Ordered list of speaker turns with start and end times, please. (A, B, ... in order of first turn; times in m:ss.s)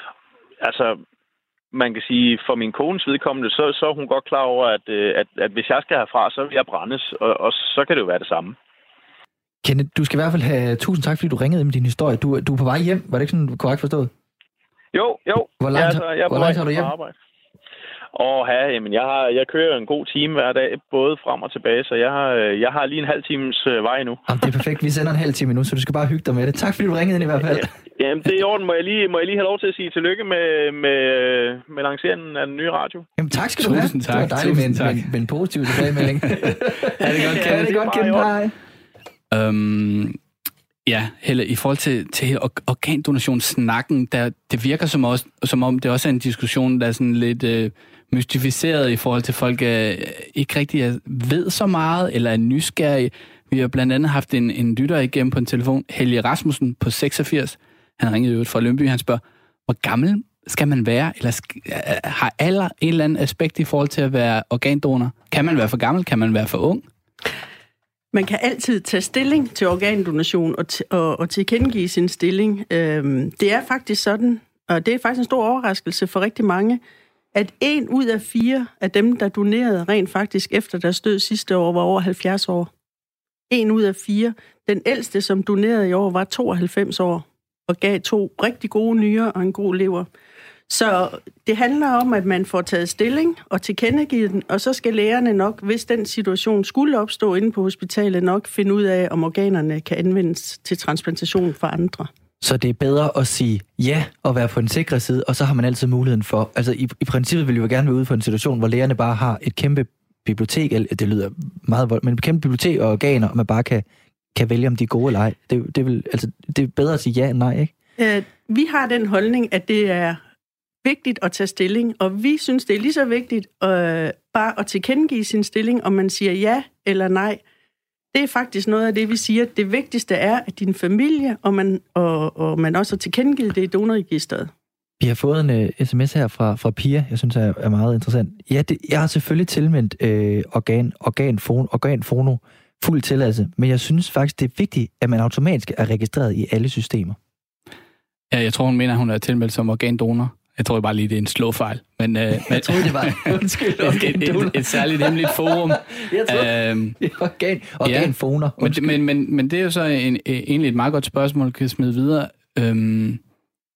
0:00.6-0:01.0 A
0:01.7-0:08.6 A
0:09.6-0:14.1 B
0:14.9-0:17.1 A
0:15.6-0:16.9 B
0:18.1-0:24.2 A
0:24.3-0:27.7 B
0:27.6-0:33.0 A
0:33.2-0:38.5 B
0:33.6-0:35.1 C
0:35.7-0:37.7 C
0:37.0-0:38.3 A
0:39.3-0:40.2 C
0:40.9-1:06.8 C
1:08.1-1:16.8 D
1:17.3-1:22.7 D
1:23.5-1:30.1 D
1:30.7-1:42.1 D
1:42.4-1:57.7 B
1:58.0-2:00.2 D
2:00.8-2:07.4 D
2:08.1-2:14.5 D
2:15.0-2:27.2 B
2:28.3-2:37.0 C
2:32.4-2:39.0 B
2:37.8-2:43.2 C